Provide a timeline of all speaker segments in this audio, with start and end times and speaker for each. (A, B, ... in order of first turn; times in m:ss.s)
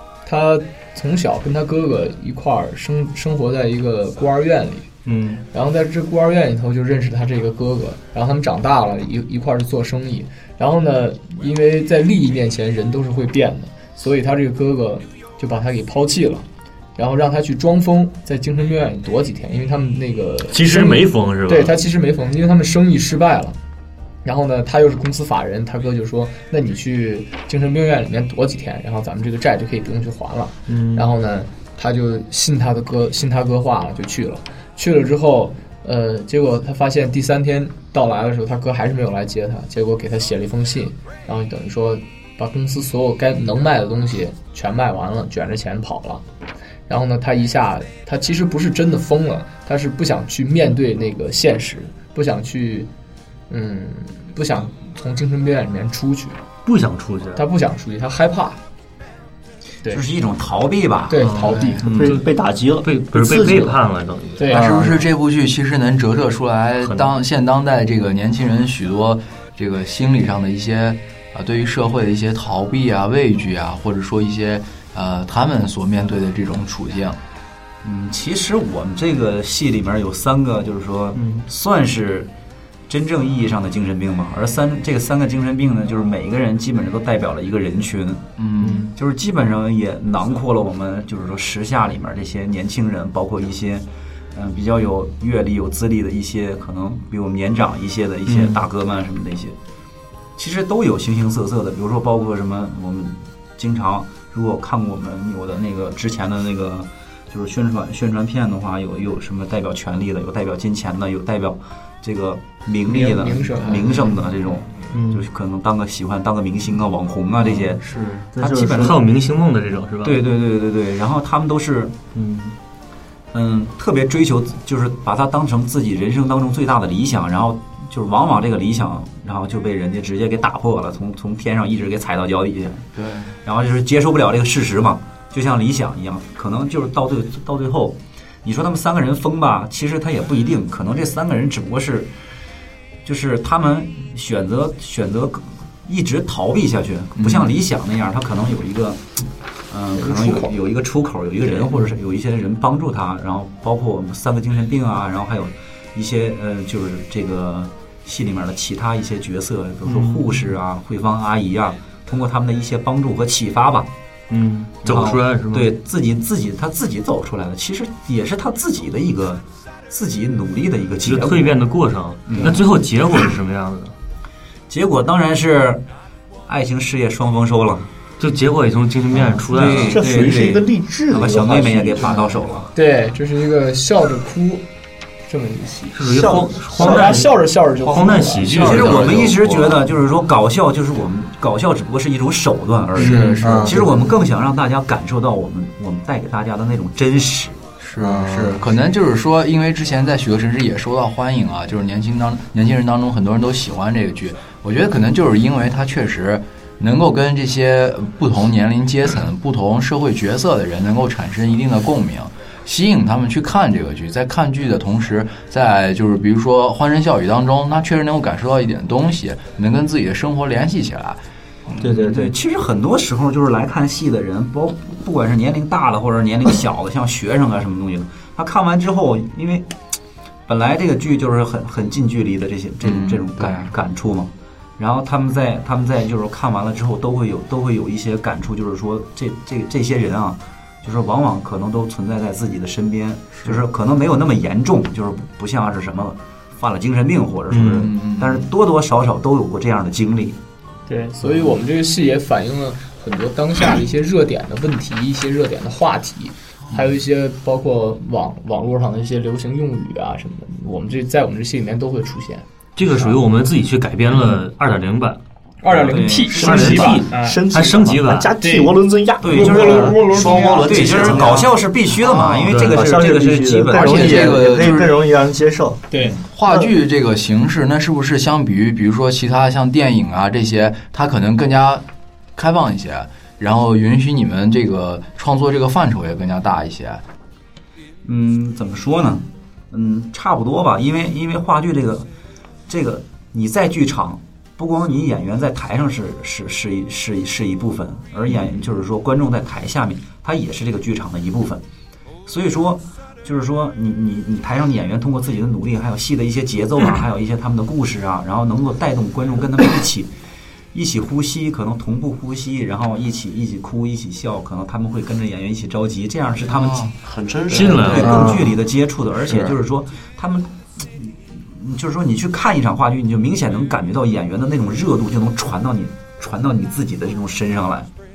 0:00.2-0:04.9 A
0:05.0-0:05.4 B
0:05.5-0:23.6 A
0:20.5-0:21.8 B
0:24.2-0:46.2 A
0:30.7-0:31.1 B
0:46.9-0:52.9 A
0:53.5-0:56.4 A
0:56.7-0:57.4 B
0:57.4-0:58.6 A
0:59.9-1:02.1 C
1:01.1-1:01.8 A
1:01.2-1:04.5 B
1:01.4-1:01.9 D
1:01.8-1:03.8 E
1:04.4-1:04.7 A
1:04.5-1:05.0 E
1:04.5-1:17.2 D
1:06.8-1:07.1 B
1:17.8-1:22.3 C
1:21.2-1:21.5 B
1:22.9-1:28.2 C
1:28.4-1:28.9 D
1:28.6-1:28.9 B
1:28.9-1:39.6 C
1:38.3-1:38.6 B
1:40.4-1:59.0 C
1:52.9-1:54.1 A
1:54.9-1:55.3 B
1:57.8-1:58.2 D
1:58.3-1:59.0 E
1:58.8-2:00.2 B
2:00.0-2:02.0 C
2:02.2-2:02.5 B
2:03.3-2:12.9 C
2:13.0-2:13.4 D
2:13.4-2:22.1 C
2:23.0-2:29.2 C
2:27.2-2:27.6 D
2:29.7-2:43.9 C
2:30.0-2:30.5 A
2:39.8-2:40.4 B
2:44.3-2:45.8 B
2:44.8-2:51.6 C
2:51.0-2:53.9 B
2:52.3-2:52.6 C
2:54.7-2:55.8 C
2:56.5-2:57.9 C
2:58.2-3:00.1 B
2:59.5-3:02.7 C
2:59.5-3:02.4 E
3:02.7-3:04.6 A
3:05.3-3:06.0 A
3:05.9-3:07.3 B
3:06.0-3:07.1 E
3:06.7-3:08.7 A
3:07.8-3:09.4 B
3:08.5-3:17.6 C
3:08.7-3:09.3 D
3:13.0-3:14.0 D
3:13.0-3:13.4 B
3:13.4-3:13.9 E
3:17.8-3:41.2 D
3:18.0-3:18.6 E
3:41.8-3:49.7 C
3:41.8-3:42.4 E
3:50.5-4:10.4 C
3:52.8-3:53.7 D
4:07.5-4:07.9 B
4:07.8-4:08.5 D
4:10.9-4:22.5 A
4:22.8-4:25.2 B
4:25.6-4:27.4 A
4:25.7-4:27.0 C
4:26.3-4:28.3 B
4:26.4-4:30.0 E
4:28.4-4:28.7 A
4:29.2-4:34.7 C
4:29.3-4:31.2 A
4:30.0-4:31.5 F
4:32.0-4:32.5 D
4:32.5-4:32.8 B
4:32.7-4:35.9 E
4:33.7-4:35.0 D
4:35.9-4:36.2 A
4:36.0-4:41.8 D
4:36.5-4:36.7 E
4:42.4-4:47.0 D
4:48.0-4:52.1 C
4:52.7-5:01.6 C
5:02.3-5:10.1 C
5:10.7-5:16.9 C
5:16.5-5:16.9 D
5:17.0-5:18.2 F
5:17.5-5:27.9 C
5:17.5-5:18.2 B
5:18.0-5:18.4 D
5:18.0-5:18.5 E